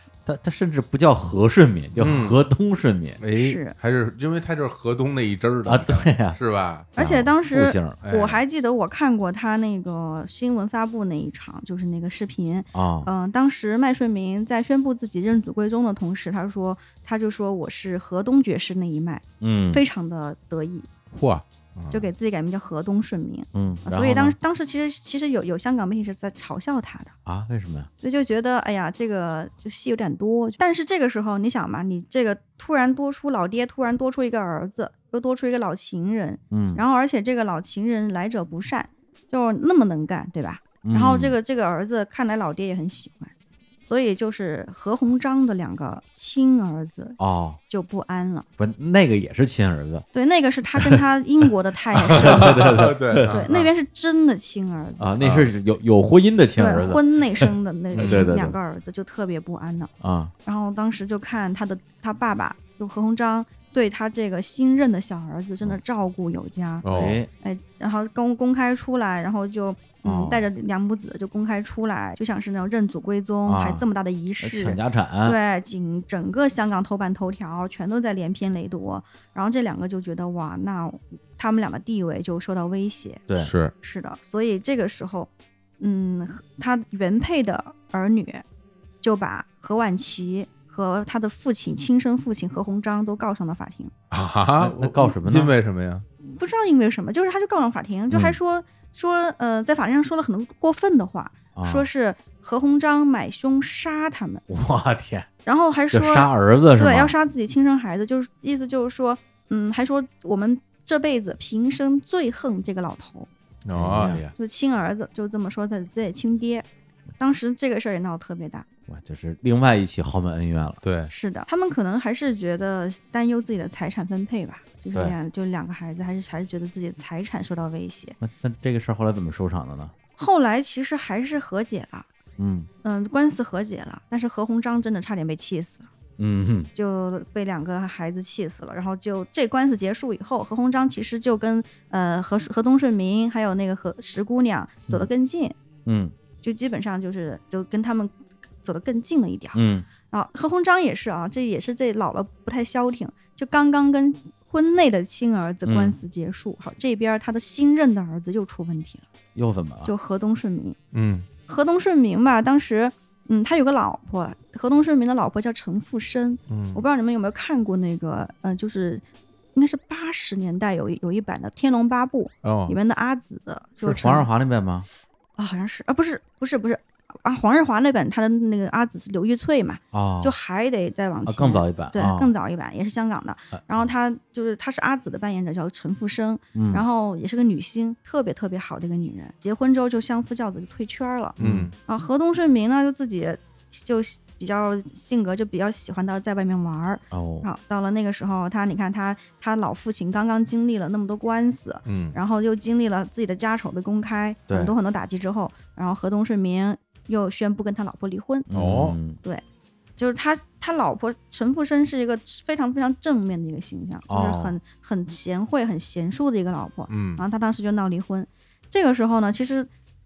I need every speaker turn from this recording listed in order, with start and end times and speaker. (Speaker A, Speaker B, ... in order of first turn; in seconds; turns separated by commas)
Speaker A: 0.2-3.2, Speaker B: 1.9-2.4, Speaker B: 3.2-6.9, Speaker C: 3.3-3.7, Speaker A: 5.7-6.4, Speaker A: 7.0-8.0, Speaker C: 7.0-20.9, Speaker B: 8.0-8.4, Speaker A: 12.7-13.1, Speaker A: 19.4-19.8, Speaker B: 21.1-22.1, Speaker C: 21.9-27.1, Speaker A: 23.5-24.4, Speaker A: 27.2-27.9, Speaker C: 28.0-48.5, Speaker A: 36.5-36.8, Speaker A: 40.8-41.3, Speaker A: 47.2-47.6, Speaker A: 48.6-50.0, Speaker C: 50.1-55.1, Speaker A: 52.0-53.4, Speaker B: 52.2-53.7, Speaker A: 55.0-58.5, Speaker B: 55.2-55.5, Speaker C: 56.6-59.9, Speaker B: 58.0-58.2, Speaker A: 60.0-60.3, Speaker C: 60.4-83.2, Speaker B: 66.8-67.2, Speaker A: 66.8-67.3, Speaker A: 70.0-70.5, Speaker A: 73.5-73.8, Speaker A: 74.4-75.4, Speaker A: 83.3-83.5, Speaker B: 83.4-83.7, Speaker C: 83.8-88.4, Speaker C: 89.0-93.9, Speaker B: 94.1-96.0, Speaker A: 94.6-95.5, Speaker C: 96.2-104.4, Speaker A: 98.1-98.4, Speaker A: 101.5-101.9, Speaker A: 104.5-105.3, Speaker C: 105.4-113.3, Speaker A: 105.9-107.1, Speaker B: 113.6-114.3, Speaker A: 113.7-114.3, Speaker C: 114.3-116.7, Speaker C: 117.2-118.7, Speaker A: 118.9-120.8, Speaker B: 120.8-121.1, Speaker C: 121.1-128.2, Speaker A: 128.2-129.9, Speaker C: 130.2-132.1, Speaker A: 132.4-132.7, Speaker C: 132.8-135.9, Speaker A: 136.2-136.7, Speaker C: 136.7-145.6, Speaker A: 145.8-146.1, Speaker C: 146.4-159.1, Speaker A: 149.5-149.9, Speaker A: 155.6-156.0, Speaker A: 159.3-159.9, Speaker C: 159.8-160.8, Speaker B: 160.9-161.3, Speaker C: 161.5-174.3, Speaker B: 166.5-166.8, Speaker B: 172.4-172.8, Speaker A: 173.8-174.9, Speaker C: 175.4-208.5, Speaker A: 179.9-180.3, Speaker A: 181.3-182.3, Speaker A: 183.5-183.8, Speaker A: 186.5-186.8, Speaker A: 191.4-191.7, Speaker B: 191.4-191.7, Speaker A: 197.1-197.5, Speaker B: 201.8-202.2, Speaker A: 204.5-204.7, Speaker A: 208.5-209.2, Speaker B: 208.5-208.9, Speaker C: 210.0-219.7, Speaker A: 214.1-214.6, Speaker B: 216.9-217.2